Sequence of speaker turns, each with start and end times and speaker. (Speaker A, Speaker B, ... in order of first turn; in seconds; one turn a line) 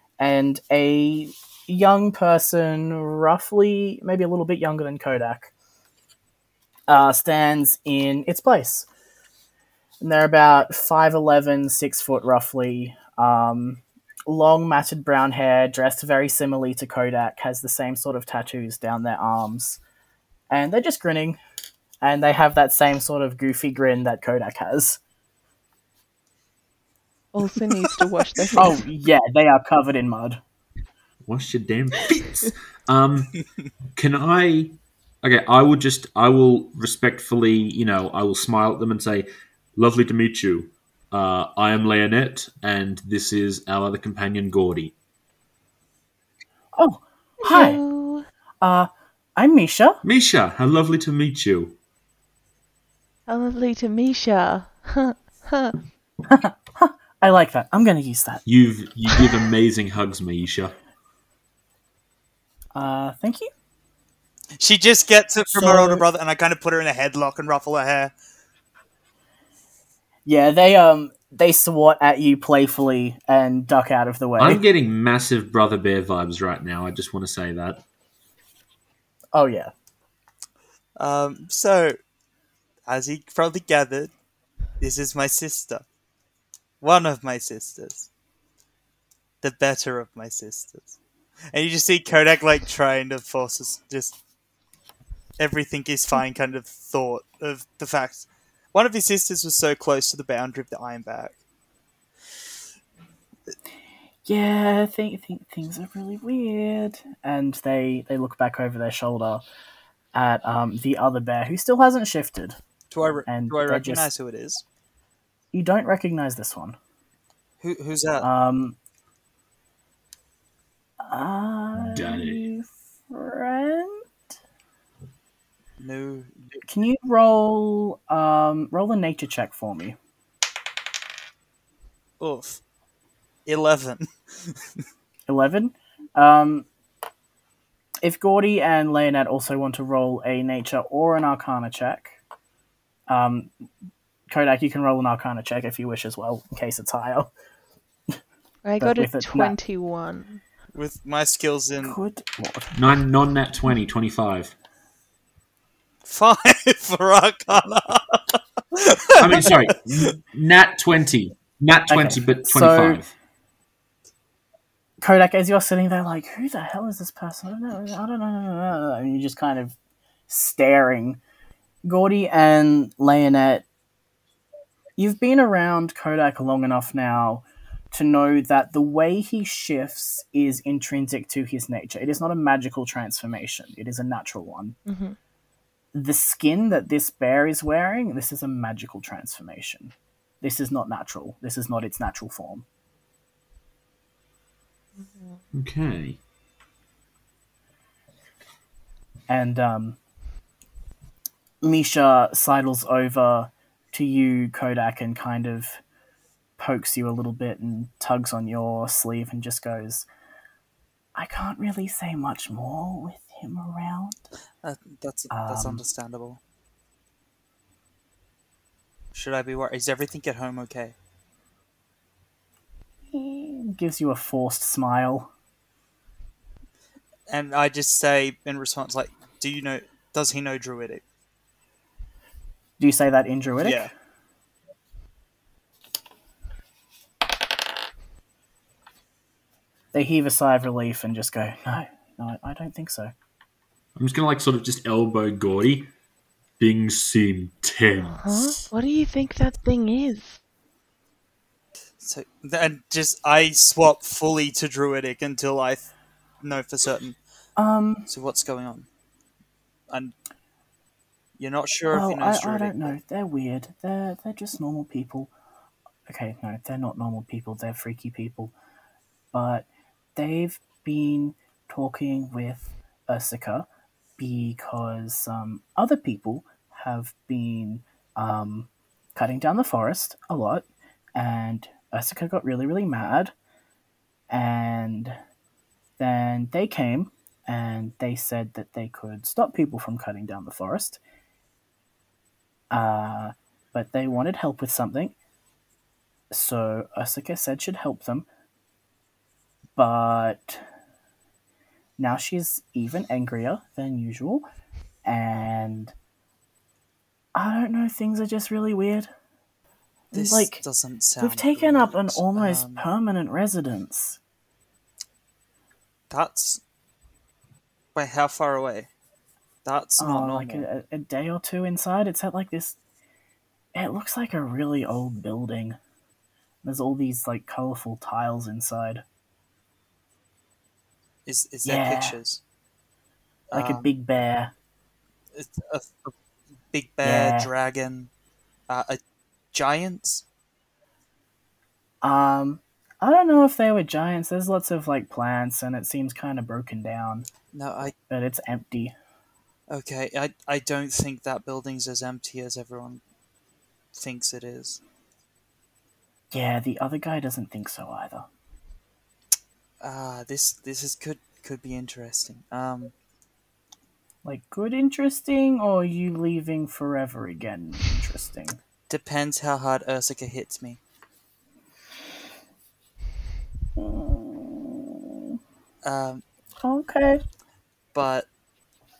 Speaker A: 0.2-5.5
Speaker A: 6.9-8.9
Speaker A: 10.0-19.8
Speaker A: 20.5-21.4
Speaker A: 22.0-25.0
Speaker B: 27.3-28.8
Speaker A: 28.6-30.4
Speaker C: 31.2-33.4
Speaker C: 34.0-44.9
Speaker A: 46.8-47.8
Speaker B: 47.4-48.2
Speaker A: 48.6-50.0
Speaker C: 50.0-51.8
Speaker B: 53.3-55.8
Speaker A: 56.3-58.4
Speaker C: 58.5-60.8
Speaker A: 62.7-63.5
Speaker D: 64.6-68.1
Speaker A: 65.5-66.0
Speaker A: 70.3-74.6
Speaker C: 74.4-77.8
Speaker A: 79.3-79.7
Speaker D: 81.0-82.0
Speaker D: 82.9-84.1
Speaker D: 84.8-85.8
Speaker D: 86.8-88.1
Speaker D: 89.4-91.0
Speaker D: 91.5-94.2
Speaker D: 95.4-101.4
Speaker A: 104.3-109.4
Speaker A: 110.1-112.6
Speaker D: 112.9-114.6
Speaker A: 113.3-114.1
Speaker A: 115.5-116.8
Speaker D: 117.6-118.3
Speaker A: 118.2-118.8
Speaker A: 121.0-124.0
Speaker C: 121.8-122.5
Speaker D: 125.8-126.6
Speaker A: 126.7-130.0
Speaker D: 132.2-132.6
Speaker D: 133.5-134.8
Speaker A: 135.3-136.7
Speaker A: 138.0-142.2
Speaker A: 143.1-143.5
Speaker A: 144.3-147.3
Speaker B: 148.6-150.4
Speaker A: 148.8-149.6
Speaker D: 150.7-152.0
Speaker A: 151.8-152.8
Speaker C: 152.7-154.5
Speaker D: 156.1-160.1
Speaker C: 159.2-163.1
Speaker A: 161.9-163.0
Speaker A: 165.0-169.8
Speaker A: 170.3-171.2
Speaker A: 171.8-173.7
Speaker A: 175.0-184.8
Speaker B: 184.9-185.2
Speaker A: 185.9-192.7
Speaker B: 195.0-195.4
Speaker C: 195.5-196.2
Speaker A: 199.3-200.0
Speaker A: 201.6-205.8
Speaker A: 206.6-210.1
Speaker A: 211.2-214.2
Speaker D: 214.6-216.4
Speaker A: 215.3-215.8
Speaker D: 219.1-220.9
Speaker A: 223.1-225.3
Speaker D: 227.3-231.0
Speaker A: 232.8-233.9
Speaker D: 233.6-233.9
Speaker A: 239.9-243.1
Speaker C: 244.0-245.9
Speaker C: 246.6-248.6
Speaker B: 248.1-250.4
Speaker D: 252.0-255.9
Speaker D: 256.4-257.2
Speaker A: 257.6-258.1
Speaker D: 258.1-258.9
Speaker D: 261.4-263.0
Speaker A: 261.9-265.3
Speaker A: 266.1-268.5
Speaker A: 269.3-273.7
Speaker A: 274.2-283.3
Speaker A: 284.3-285.2
Speaker A: 286.0-291.0
Speaker A: 292.7-295.1
Speaker A: 296.3-298.3
Speaker A: 299.8-300.6
Speaker A: 302.0-304.4
Speaker A: 305.0-305.9
Speaker A: 307.4-309.1
Speaker A: 310.1-310.6
Speaker D: 310.1-312.9
Speaker A: 311.2-314.2
Speaker D: 316.1-316.6
Speaker D: 317.9-318.9
Speaker D: 319.6-320.7
Speaker A: 320.0-322.8
Speaker A: 323.7-325.8
Speaker A: 326.6-329.0
Speaker D: 331.3-332.4
Speaker A: 331.6-332.2
Speaker D: 333.5-333.9
Speaker A: 333.5-334.5
Speaker D: 335.3-336.1
Speaker D: 336.7-338.1
Speaker A: 337.0-337.5
Speaker D: 338.7-339.0
Speaker D: 339.5-340.2
Speaker A: 342.0-347.3
Speaker D: 347.5-347.9
Speaker A: 348.1-348.9
Speaker D: 349.7-353.0
Speaker D: 353.9-354.8
Speaker A: 356.3-358.3
Speaker D: 359.8-362.9
Speaker A: 364.2-368.6
Speaker D: 368.9-370.8
Speaker A: 373.8-375.0
Speaker D: 375.8-376.2
Speaker A: 376.6-377.2
Speaker D: 377.9-378.3